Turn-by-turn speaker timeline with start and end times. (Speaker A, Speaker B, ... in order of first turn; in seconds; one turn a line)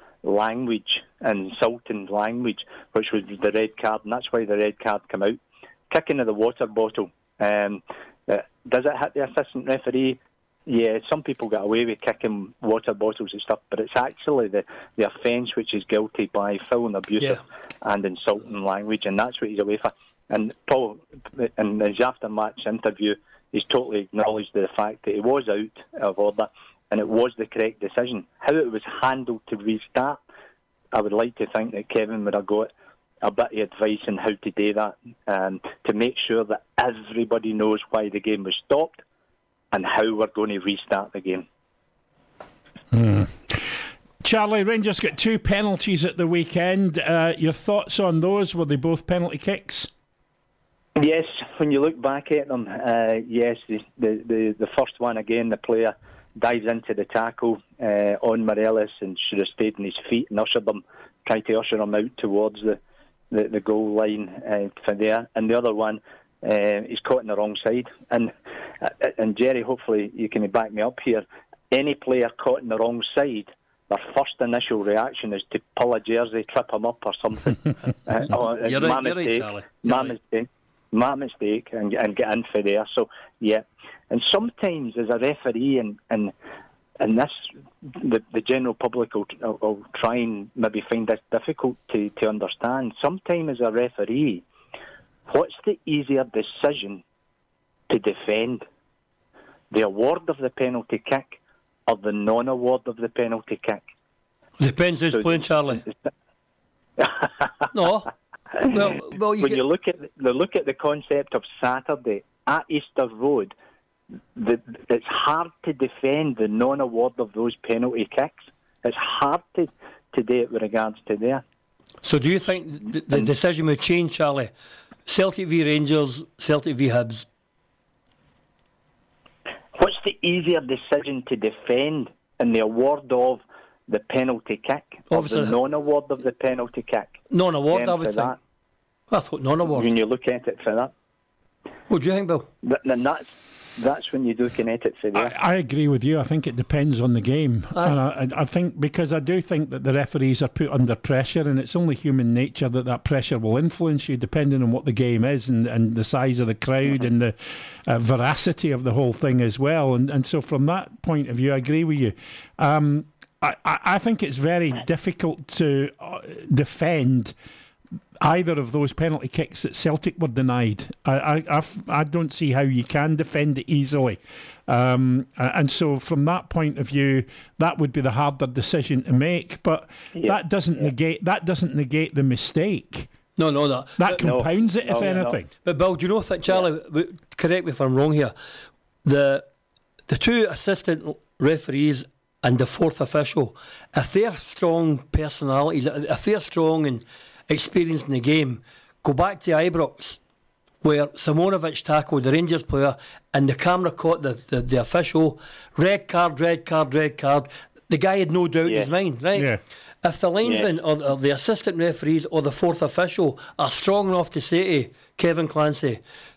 Speaker A: 0.2-30.2
Speaker A: 30.9-32.7
Speaker A: 33.2-39.0
Speaker A: 39.7-41.5
Speaker B: 42.9-49.9
Speaker A: 51.0-62.8
Speaker A: 63.3-86.3
Speaker C: 78.3-80.2
Speaker A: 87.0-94.4
Speaker A: 95.3-97.0
Speaker A: 97.9-98.7
Speaker A: 99.7-103.9
Speaker C: 104.6-105.8
Speaker A: 105.1-106.0
Speaker A: 107.0-107.7
Speaker C: 107.7-108.1
Speaker C: 108.7-109.6
Speaker A: 109.4-113.5
Speaker A: 114.3-121.4
Speaker C: 122.0-124.5
Speaker C: 125.1-127.3
Speaker A: 129.8-137.2
Speaker C: 135.1-135.6
Speaker C: 137.3-138.4
Speaker A: 137.7-138.4
Speaker C: 139.1-139.9
Speaker A: 139.7-140.9
Speaker C: 141.9-142.5
Speaker A: 142.6-145.4
Speaker B: 145.2-167.3
Speaker B: 168.2-183.1
Speaker A: 180.2-180.9
Speaker C: 183.4-184.4
Speaker B: 184.0-185.5
Speaker A: 184.1-185.4
Speaker C: 185.0-188.3
Speaker C: 189.1-189.5
Speaker C: 190.1-200.2
Speaker C: 200.8-216.0
Speaker B: 209.3-209.6